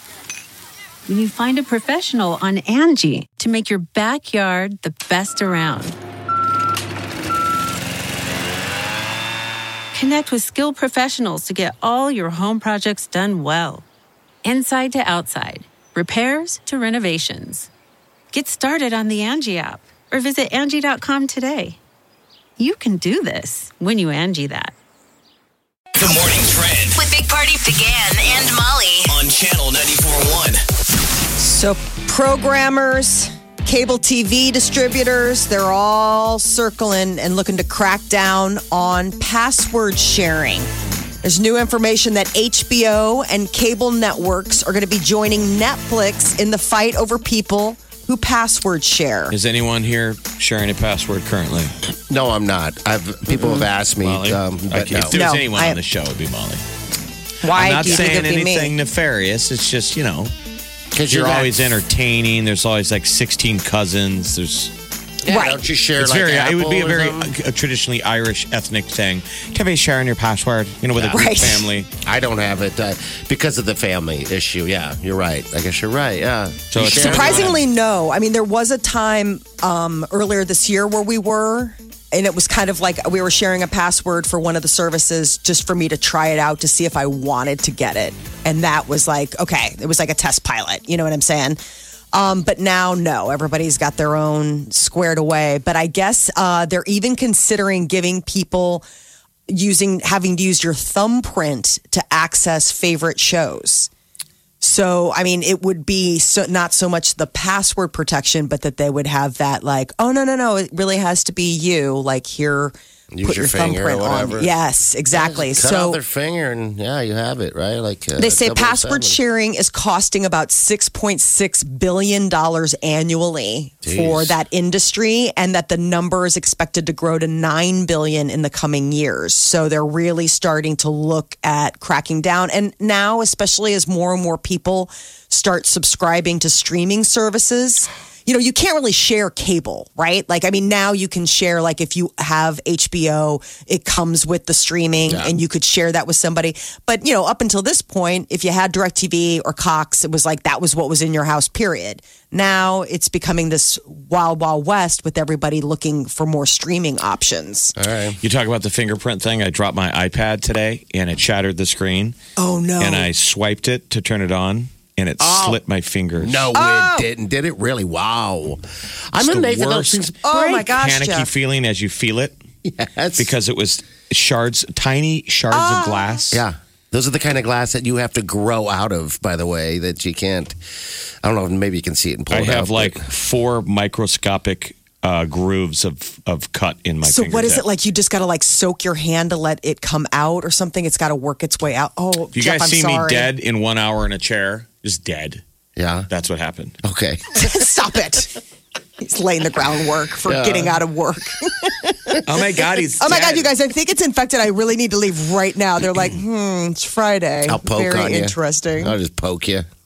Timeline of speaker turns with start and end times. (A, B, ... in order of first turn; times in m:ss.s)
0:01.1-0:06.0 A
0:09.9-0:13.8 A
0:14.4-0:17.7 A
0:18.3-0:21.8 A
0:22.6-0:24.7 A
0:26.0-0:26.2 B
0:26.1-0:27.0 C
0:26.9-0:29.2 B
0:29.1-0:30.6 C
0:31.4-0:40.7 D
0:41.2-0:49.4 D
0:49.3-0:51.7 E
0:52.1-0:55.2 F
0:54.0-0:56.6 E
0:55.1-0:55.8 D
0:57.4-0:58.8 D
0:57.5-1:00.3 E
1:00.9-1:01.6 F
1:01.1-1:04.7 E
1:05.2-1:07.3 F
1:05.3-1:05.6 D
1:06.0-1:11.9 E
1:11.0-1:11.3 F
1:11.1-1:11.6 D
1:12.0-1:17.6 F
1:16.7-1:17.6 E
1:16.9-1:31.6 D
1:32.1-1:38.8 D
1:39.5-1:43.9 D
1:44.6-1:56.0 D
1:53.1-1:54.5 F
1:55.1-1:59.2 F
1:58.2-2:37.7 D
2:03.8-2:04.4 F
2:25.1-2:25.4 F
2:37.8-2:38.2 F
2:38.2-2:42.2 E
2:42.4-2:43.1 D
2:42.8-2:46.5 E
2:45.2-2:45.6 F
2:46.2-2:50.2 F
2:46.5-2:47.1 D
2:49.2-2:52.4 E
2:50.2-2:51.3 D
2:52.6-2:53.3 F
2:53.2-2:56.4 E
2:55.5-2:56.2 D
2:56.3-3:00.6 F
3:01.2-3:03.0 F
3:02.3-3:07.6 E
3:07.0-3:13.3 D
3:12.3-3:15.4 E
3:15.8-3:16.1 F
3:16.1-3:16.8 E
3:16.8-3:17.5 F
3:17.3-3:18.3 D
3:19.0-3:22.2 D
3:20.2-3:20.8 F
3:22.2-3:23.5 E
3:23.0-3:29.0 D
3:27.4-3:29.6 F